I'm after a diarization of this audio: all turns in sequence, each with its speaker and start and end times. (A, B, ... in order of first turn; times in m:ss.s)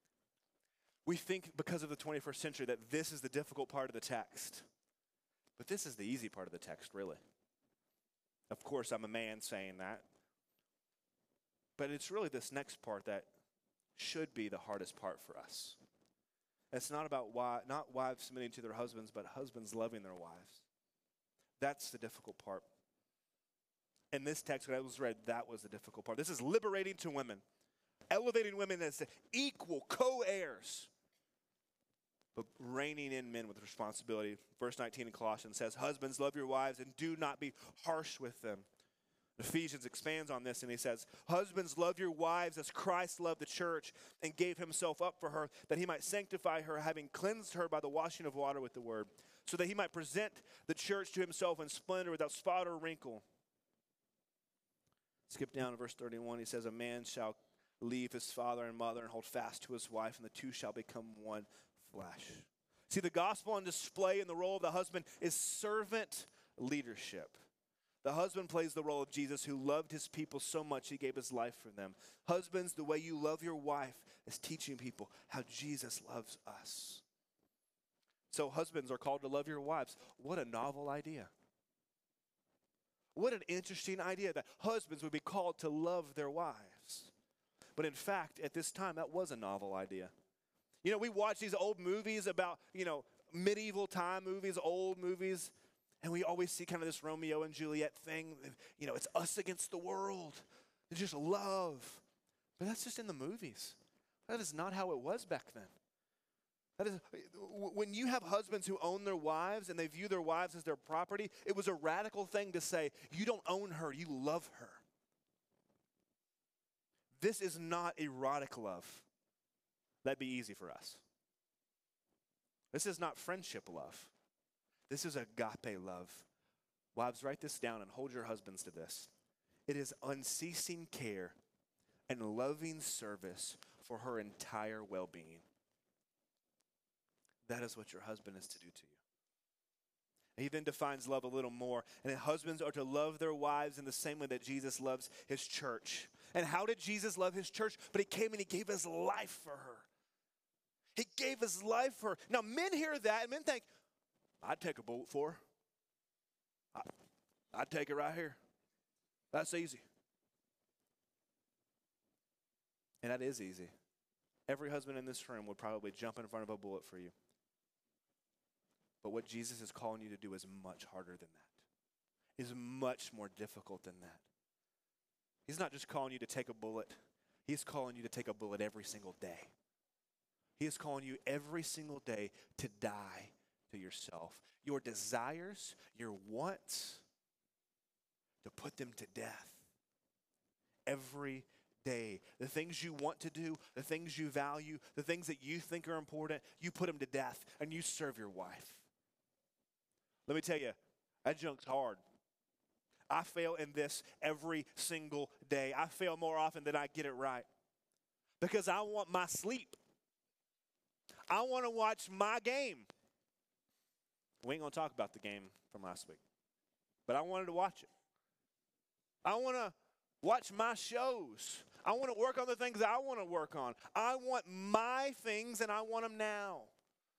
0:01.0-0:04.6 A
0:05.6-0:07.2 A
0:08.5-0:10.0 A
0:11.8-0:13.3 A
0:14.0-0:15.8 A
0:16.7-0:20.6 A
0:21.6-0:22.7 A
0:24.1-0:27.4 A
0:28.1-0:30.9 A
0:32.3-0:38.6 A
0:39.4-0:53.2 A
0:55.3-1:07.4 A
1:08.0-1:17.0 A
1:18.3-1:21.3 A
1:23.1-1:27.1 A
1:27.8-1:30.1 A
1:30.8-1:42.0 A
1:42.6-1:45.7 A
1:46.8-1:54.8 A
1:57.1-1:59.1 A
2:00.0-2:01.0 A
2:02.7-2:04.1 A
2:04.9-2:06.3 A
2:06.9-2:09.1 A
2:09.7-2:11.4 A
2:12.1-2:15.4 A
2:17.4-2:19.0 A
2:20.4-2:29.9 A
2:30.9-2:33.6 A
2:34.4-2:35.4 A
2:37.5-2:38.4 A
2:39.3-2:39.8 A
2:43.0-2:43.7 A
2:44.5-2:47.1 A
2:49.0-2:51.6 A
2:52.4-2:54.2 A
2:55.5-2:59.5 A
3:00.6-3:07.0 A
3:08.4-3:09.6 A
3:10.9-3:18.8 A
3:20.3-3:22.0 A
3:23.1-3:27.5 A
3:28.4-3:29.8 A
3:31.3-3:32.9 A
3:34.4-3:36.2 A
3:37.1-3:37.9 A
3:39.2-3:46.7 A